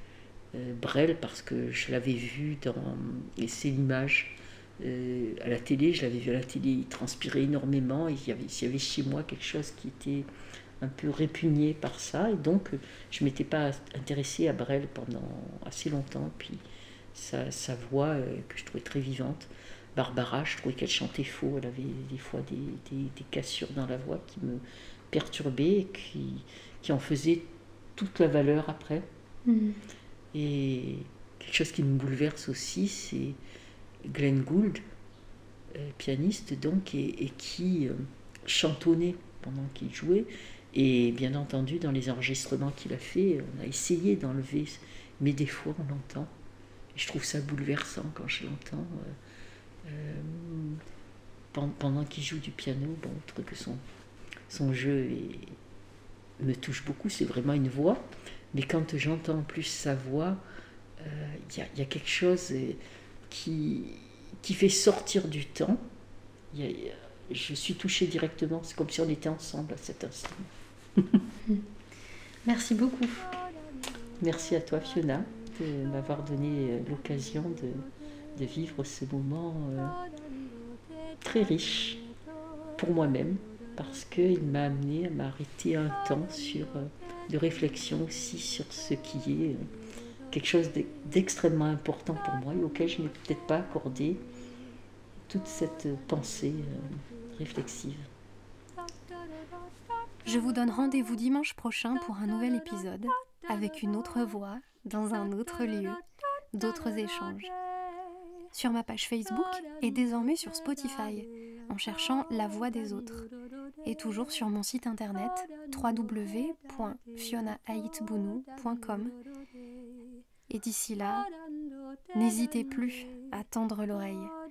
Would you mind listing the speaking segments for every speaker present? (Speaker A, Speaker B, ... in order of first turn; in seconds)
Speaker A: 0.5-10.3, 10.8-16.6, 17.1-29.1, 30.3-33.4, 34.0-34.8, 35.7-46.3, 46.9-49.1, 49.8-50.8, 51.5-53.8, 54.5-55.6, 56.4-60.4, 61.0-65.8, 66.5-71.2, 74.2-80.0, 81.2-82.0, 82.8-89.7, 90.3-94.2, 95.3-98.1
Speaker B: 29.4-29.8, 72.5-73.2, 100.2-106.0, 106.5-107.5, 108.5-113.3, 113.8-119.2, 120.5-121.3, 122.1-124.3